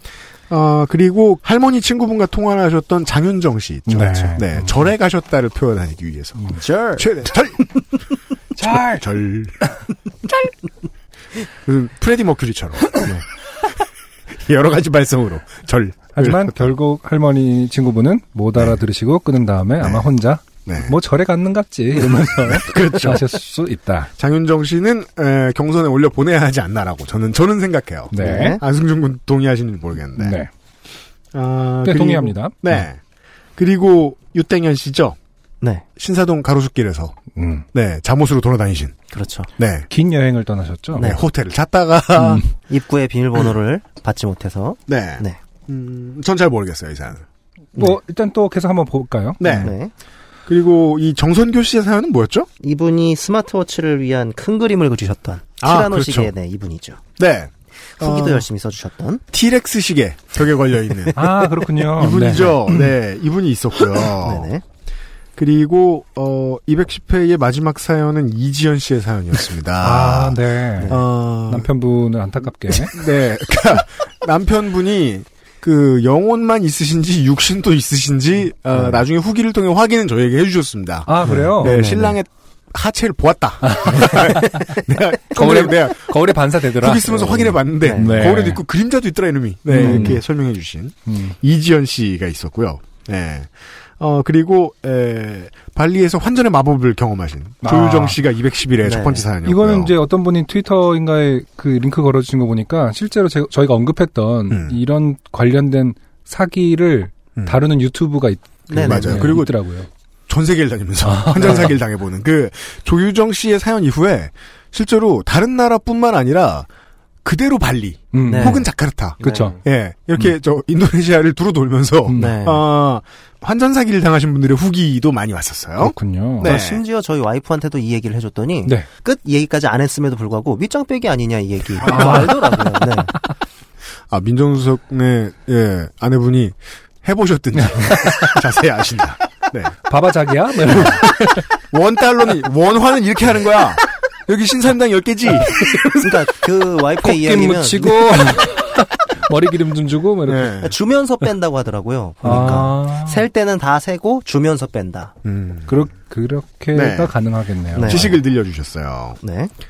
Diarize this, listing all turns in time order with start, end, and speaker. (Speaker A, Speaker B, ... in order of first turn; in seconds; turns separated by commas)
Speaker A: 0.5-7.8, Speaker B: 3.9-4.6, Speaker B: 6.4-6.6, Speaker B: 8.6-9.0, Speaker A: 8.6-9.7, Speaker A: 11.6-16.7, Speaker B: 16.1-24.1, Speaker A: 20.6-20.9, Speaker A: 22.1-23.3, Speaker A: 24.2-30.4, Speaker B: 28.1-28.6, Speaker C: 28.1-28.6, Speaker B: 30.1-30.5, Speaker A: 31.3-33.0, Speaker B: 31.8-32.8, Speaker A: 33.5-35.2, Speaker A: 36.0-37.2, Speaker B: 37.3-37.6, Speaker A: 37.7-39.0, Speaker C: 39.1-39.5, Speaker A: 39.6-39.9, Speaker B: 39.9-41.1, Speaker A: 41.0-42.4, Speaker C: 42.6-45.4, Speaker A: 44.9-47.2, Speaker B: 47.7-49.7, Speaker A: 49.4-49.7, Speaker C: 49.4-49.9, Speaker A: 50.5-52.5, Speaker C: 52.6-57.0, Speaker A: 55.6-56.3, Speaker A: 57.2-58.5, Speaker C: 58.0-59.2, Speaker A: 59.3-61.2, Speaker B: 61.1-62.9, Speaker A: 62.0-64.5, Speaker C: 64.2-64.6, Speaker A: 65.4-71.7, Speaker B: 69.8-73.0, Speaker A: 72.8-86.2, Speaker B: 81.1-82.2, Speaker B: 83.6-84.8, Speaker B: 85.3-88.6, Speaker A: 86.8-99.9, Speaker C: 87.8-88.3, Speaker B: 89.7-90.2, Speaker C: 89.8-90.1, Speaker B: 91.1-91.3, Speaker B: 97.6-98.2, Speaker C: 98.8-99.2, Speaker B: 99.4-109.9, Speaker A: 104.5-104.8, Speaker C: 108.7-109.4, Speaker A: 108.8-109.5, Speaker A: 110.3-116.7, Speaker B: 111.0-111.8, Speaker A: 117.2-126.8, Speaker B: 118.1-118.6, Speaker C: 118.2-118.6, Speaker B: 119.2-119.6, Speaker C: 119.2-119.6, Speaker B: 122.0-122.4, Speaker C: 122.2-122.6, Speaker B: 125.8-126.5, Speaker C: 126.4-133.1, Speaker B: 131.8-132.8, Speaker A: 131.8-132.2, Speaker A: 134.1-139.7, Speaker B: 137.6-138.4, Speaker B: 139.9-141.4, Speaker A: 140.7-146.2, Speaker C: 146.0-148.1, Speaker B: 147.0-150.7, Speaker A: 150.3-150.8, Speaker C: 150.6-155.1, Speaker B: 152.2-153.2, Speaker A: 155.2-155.7, Speaker B: 155.7-158.2, Speaker A: 156.7-157.1, Speaker C: 157.7-158.1, Speaker A: 157.8-159.2, Speaker C: 159.2-159.5